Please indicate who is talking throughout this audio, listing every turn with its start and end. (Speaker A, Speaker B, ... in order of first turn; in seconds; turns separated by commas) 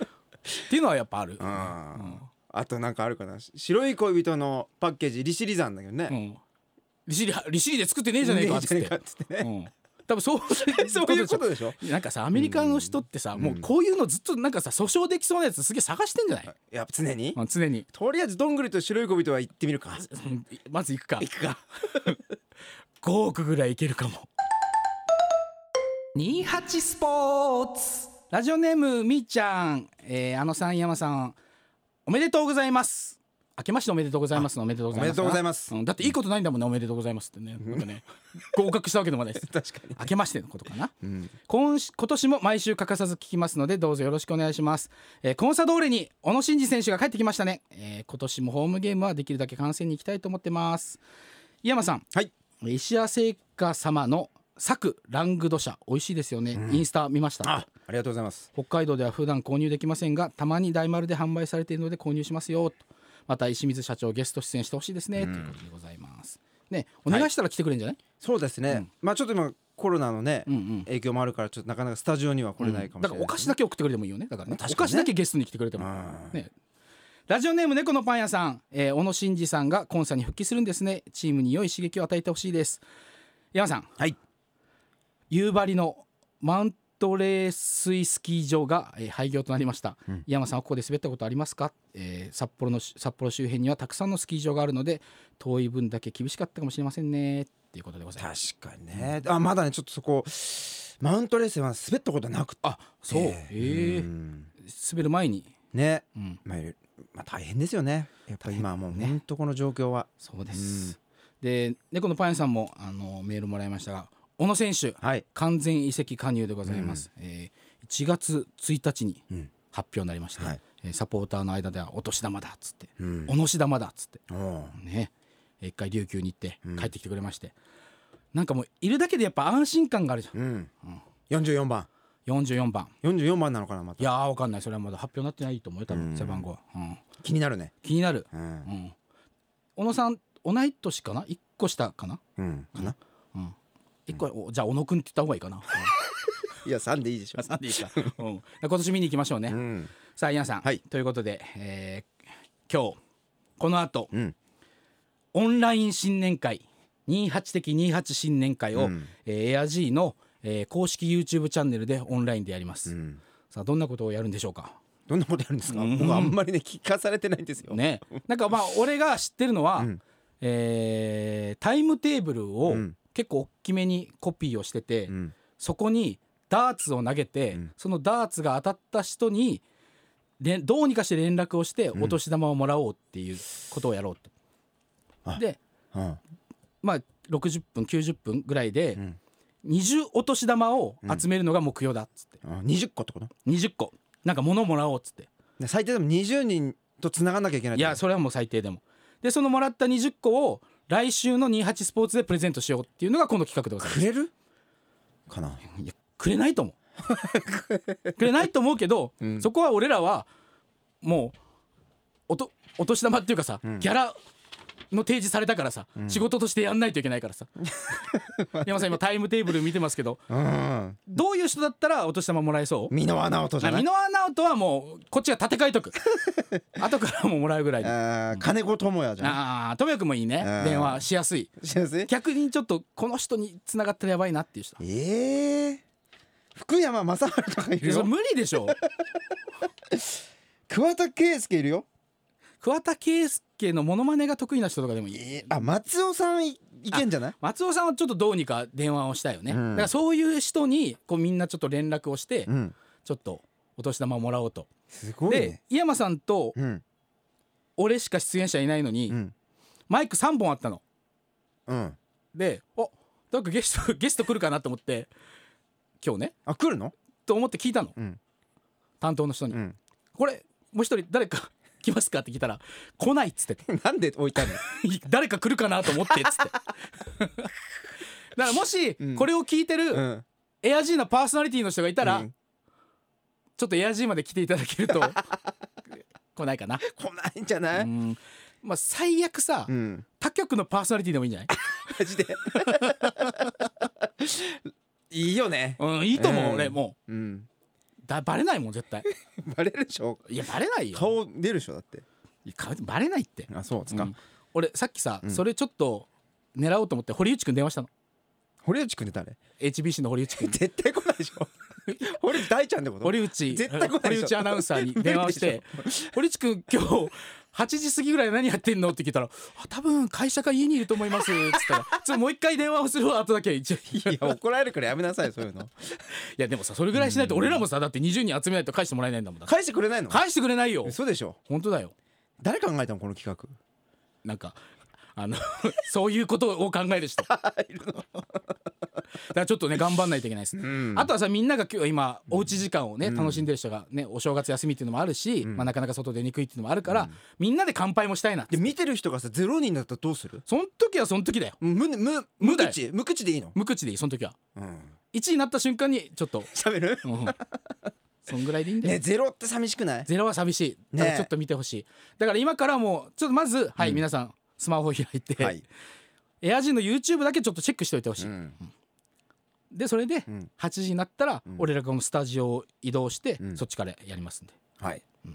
Speaker A: 0.6-2.3, Speaker B: 1.4-6.2, Speaker A: 6.1-6.4, Speaker A: 7.1-16.5, Speaker B: 8.2-9.5, Speaker B: 10.6-11.8, Speaker B: 12.3-13.7, Speaker B: 16.5-17.4, Speaker A: 17.4-17.9, Speaker B: 17.9-20.1, Speaker A: 20.0-21.3, Speaker B: 21.2-21.6, Speaker A: 21.9-22.2, Speaker A: 23.0-24.3, Speaker A: 26.1-31.4, Speaker A: 32.1-40.9, Speaker B: 34.4-35.7, Speaker B: 39.4-40.0, Speaker B: 41.0-41.3, Speaker A: 41.5-51.0, Speaker A: 51.6-52.0, Speaker A: 52.6-57.6, Speaker B: 56.5-56.9, Speaker B: 57.4-58.5, Speaker A: 58.5-68.0, Speaker B: 65.2-65.5, Speaker B: 68.2-73.6, Speaker A: 70.5-70.9, Speaker A: 72.6-76.5, Speaker B: 74.5-75.1, Speaker B: 75.8-76.4, Speaker A: 77.3-82.8, Speaker A: 83.5-83.9, Speaker A: 85.3-98.3, Speaker B: 98.2-104.5, Speaker A: 102.6-104.1, Speaker A: 104.6-105.5, Speaker B: 105.7-111.0, Speaker A: 108.4-109.2, Speaker A: 110.2-124.2, Speaker B: 116.7-117.0, Speaker B: 123.0-123.3, Speaker B: 124.3-124.8, Speaker A: 124.7-127.5, Speaker B: 126.7-126.9, Speaker A: 128.3-130.3, Speaker B: 130.3-130.7, Speaker B: 131.3-131.9, Speaker A: 132.3-132.9, Speaker B: 133.0-134.1, Speaker A: 134.0-137.0, Speaker B: 135.9-136.5, Speaker B: 137.2-137.7, Speaker A: 137.8-138.9, Speaker B: 138.3-138.7, Speaker A: 139.8-142.2, Speaker B: 142.4-142.9, Speaker A: 142.8-143.5, Speaker A: 144.1-145.9, Speaker B: 146.6-148.2, Speaker A: 147.4-149.6, Speaker B: 149.5-149.9, Speaker A: 150.1-152.1, Speaker A: 152.7-153.0, Speaker A: 153.6-154.1, Speaker A: 155.3-162.9, Speaker B: 158.8-159.1, Speaker B: 162.9-163.2, Speaker A: 163.5-164.8, Speaker B: 165.1-167.9, Speaker A: 165.7-166.4, Speaker A: 167.7-179.6, Speaker B: 172.7-172.9, Speaker B: 175.1-175.3, Speaker A: 180.4-184.3, Speaker B: 185.9-186.2, Speaker A: 186.8-189.0, Speaker A: 189.6-192.3, Speaker B: 192.4-193.3, Speaker A: 193.4-195.3, Speaker B: 195.6-198.0, Speaker A: 197.8-204.0, Speaker B: 203.8-204.3, Speaker B: 205.3-205.6, Speaker A: 205.7-206.8, Speaker B: 207.1-208.1, Speaker A: 208.2-210.3, Speaker B: 209.2-209.5, Speaker A: 211.0-211.4, Speaker A: 212.3-214.2, Speaker A: 214.9-217.5, Speaker B: 217.6-219.0, Speaker A: 218.6-220.2, Speaker B: 220.3-221.1, Speaker A: 221.1-222.9, Speaker B: 222.9-223.9, Speaker A: 223.6-226.1, Speaker A: 226.8-228.4, Speaker B: 227.8-229.4, Speaker A: 229.2-234.8, Speaker B: 230.4-231.1, Speaker B: 231.6-232.1, Speaker B: 234.8-235.8, Speaker B: 236.6-238.1, Speaker A: 237.8-238.8, Speaker B: 239.9-240.2, Speaker B: 240.7-241.9, Speaker A: 242.6-245.6, Speaker B: 245.1-247.3, Speaker A: 246.9-252.5, Speaker B: 249.5-249.9, Speaker B: 252.5-252.8, Speaker A: 253.1-254.7, Speaker B: 254.9-255.6, Speaker A: 255.3-256.6, Speaker B: 256.6-256.8, Speaker A: 257.8-259.2, Speaker A: 259.9-260.8, Speaker B: 261.7-262.0, Speaker A: 262.3-265.1, Speaker A: 266.0-266.4, Speaker B: 266.5-266.9, Speaker A: 267.3-267.9, Speaker A: 269.0-269.6, Speaker B: 269.5-269.8, Speaker A: 270.2-273.7, Speaker B: 273.7-274.6, Speaker A: 274.4-277.5, Speaker A: 278.4-280.1, Speaker B: 279.0-279.3, Speaker B: 279.9-280.2, Speaker A: 280.6-282.3, Speaker B: 282.0-282.3, Speaker A: 283.6-285.2, Speaker A: 286.4-286.8, Speaker B: 286.8-287.9, Speaker A: 287.8-291.5, Speaker B: 289.7-290.1, Speaker B: 291.5-293.7, Speaker A: 292.6-293.5, Speaker B: 294.2-294.6, Speaker B: 295.1-297.5, Speaker A: 295.8-296.9, Speaker A: 298.1-299.1, Speaker B: 299.1-300.3, Speaker A: 300.3-301.1, Speaker B: 300.9-302.0, Speaker A: 302.5-307.9, Speaker B: 303.5-304.1, Speaker B: 308.6-309.4, Speaker A: 309.6-310.6, Speaker B: 310.4-316.2, Speaker A: 311.9-312.4, Speaker A: 313.0-324.3, Speaker B: 323.9-325.7, Speaker A: 326.1-329.5, Speaker B: 326.9-327.6, Speaker B: 329.5-330.2, Speaker A: 330.1-331.0, Speaker B: 330.8-331.4, Speaker A: 331.5-331.9, Speaker B: 332.4-333.5, Speaker A: 334.2-334.6, Speaker A: 335.2-337.3, Speaker B: 337.2-338.4, Speaker A: 339.3-348.7, Speaker B: 340.6-341.1, Speaker B: 342.3-343.5, Speaker B: 345.4-345.7, Speaker B: 346.9-347.1, Speaker B: 348.5-350.4, Speaker A: 350.5-351.6, Speaker B: 351.6-353.6, Speaker A: 352.4-352.8, Speaker A: 353.6-354.4, Speaker B: 354.6-354.9, Speaker A: 355.1-356.5, Speaker B: 356.5-357.7, Speaker A: 357.0-357.4, Speaker A: 358.2-359.0, Speaker B: 358.8-360.1, Speaker A: 360.1-365.6, Speaker B: 360.9-361.3, Speaker B: 365.4-365.6, Speaker A: 366.4-368.4, Speaker B: 368.2-368.6, Speaker A: 369.7-374.6